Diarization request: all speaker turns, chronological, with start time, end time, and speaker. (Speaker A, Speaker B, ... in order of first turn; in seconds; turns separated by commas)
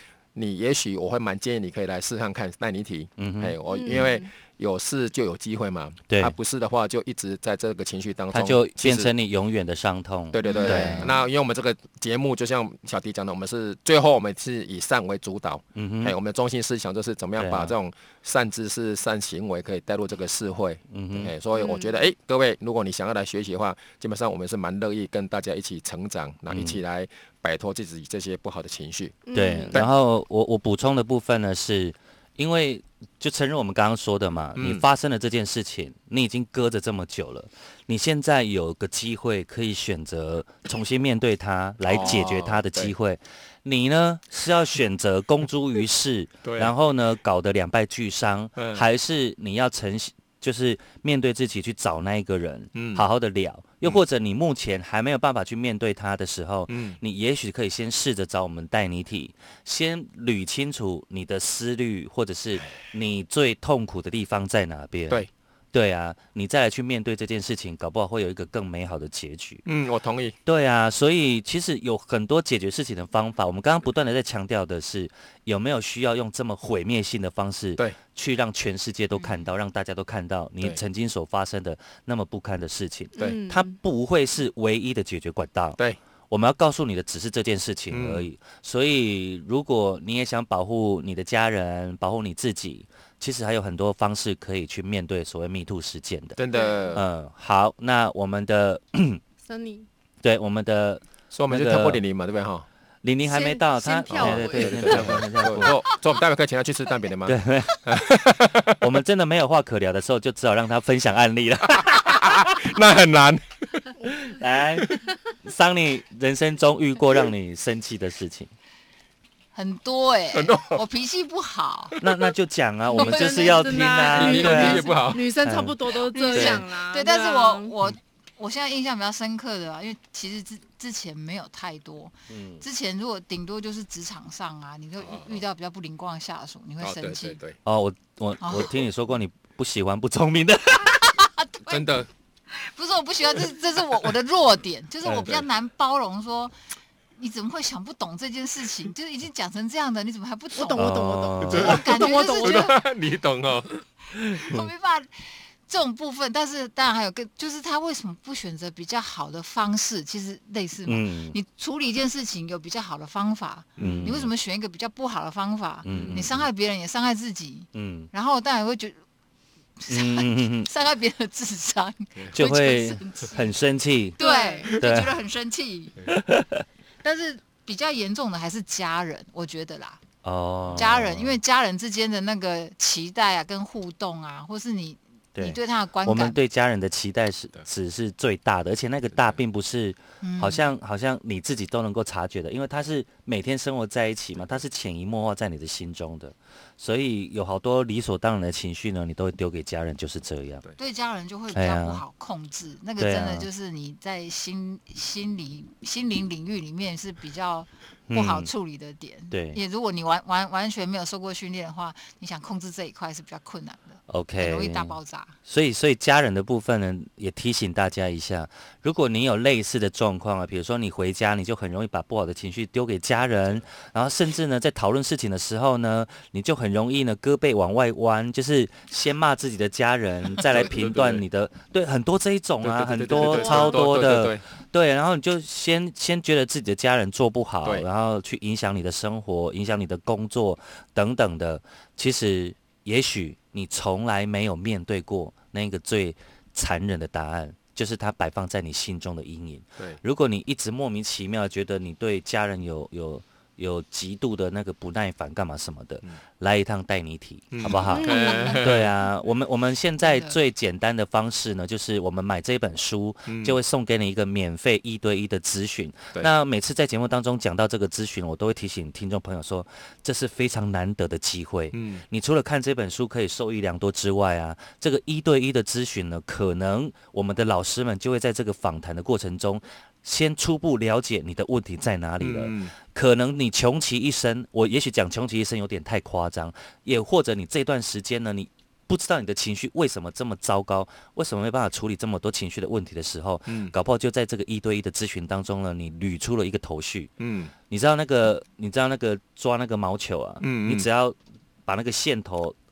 Speaker A: 0.3-9.1, Speaker B: 3.2-3.5, Speaker C: 3.7-4.3, Speaker B: 6.1-6.3, Speaker B: 8.3-11.1, Speaker A: 10.3-29.2, Speaker C: 10.4-11.1, Speaker B: 15.8-16.1, Speaker B: 17.4-17.7, Speaker B: 20.9-21.3, Speaker C: 21.5-22.0, Speaker B: 26.5-26.8, Speaker C: 29.2-29.8, Speaker B: 29.3-69.6, Speaker A: 34.5-34.9, Speaker A: 41.9-42.9, Speaker A: 46.4-46.7, Speaker A: 48.6-48.8, Speaker A: 52.8-53.0, Speaker A: 56.7-57.0, Speaker A: 69.7-70.3, Speaker B: 70.5-85.8, Speaker C: 83.2-83.7, Speaker B: 86.3-96.4, Speaker A: 87.9-88.3, Speaker A: 96.4-97.0, Speaker B: 96.9-99.2, Speaker C: 99.5-99.9, Speaker B: 100.2-102.0, Speaker A: 101.3-102.7, Speaker B: 103.0-105.8, Speaker C: 103.3-105.2, Speaker A: 104.1-108.8, Speaker B: 107.2-108.0, Speaker B: 108.8-112.8, Speaker A: 111.7-113.9, Speaker B: 114.2-118.5, Speaker D: 119.5-122.0, Speaker A: 120.3-120.8, Speaker B: 122.0-125.8, Speaker C: 122.9-127.7, Speaker D: 123.0-123.8, Speaker A: 124.1-125.3, Speaker D: 126.1-137.4, Speaker B: 126.3-126.6, Speaker B: 132.3-132.6, Speaker A: 135.0-135.4, Speaker A: 136.8-137.6, Speaker B: 137.6-141.3, Speaker D: 138.4-138.7, Speaker D: 141.4-141.9, Speaker A: 141.7-142.1, Speaker D: 142.6-146.5, Speaker A: 145.1-145.4, Speaker D: 147.2-152.8, Speaker C: 150.5-152.8, Speaker B: 150.8-151.8, Speaker A: 151.5-154.7, Speaker D: 154.4-155.1, Speaker D: 155.7-169.0, Speaker B: 160.9-161.4, Speaker A: 163.8-164.2, Speaker B: 163.8-164.3, Speaker B: 165.8-166.5, Speaker A: 165.9-166.3, Speaker B: 167.7-168.1, Speaker D: 169.8-173.5, Speaker B: 169.9-170.7, Speaker B: 172.3-175.2, Speaker D: 174.2-176.0, Speaker C: 174.2-174.7, Speaker B: 176.1-176.6, Speaker D: 177.0-180.0, Speaker B: 180.2-181.4, Speaker D: 180.8-186.4, Speaker B: 185.3-200.6, Speaker D: 190.2-190.7, Speaker D: 200.8-215.3, Speaker B: 201.5-202.0, Speaker B: 203.0-203.5, Speaker B: 208.1-208.5, Speaker B: 209.3-209.6, Speaker B: 214.1-297.1, Speaker A: 230.4-231.2, Speaker A: 232.6-234.4, Speaker C: 233.1-233.8, Speaker A: 257.5-258.9, Speaker C: 257.8-258.6, Speaker D: 258.0-258.6, Speaker D: 260.0-260.4, Speaker A: 263.3-263.6, Speaker A: 271.7-272.0, Speaker A: 282.2-282.7, Speaker A: 293.5-293.7, Speaker A: 297.2-297.5, Speaker B: 297.7-302.6, Speaker A: 300.4-300.9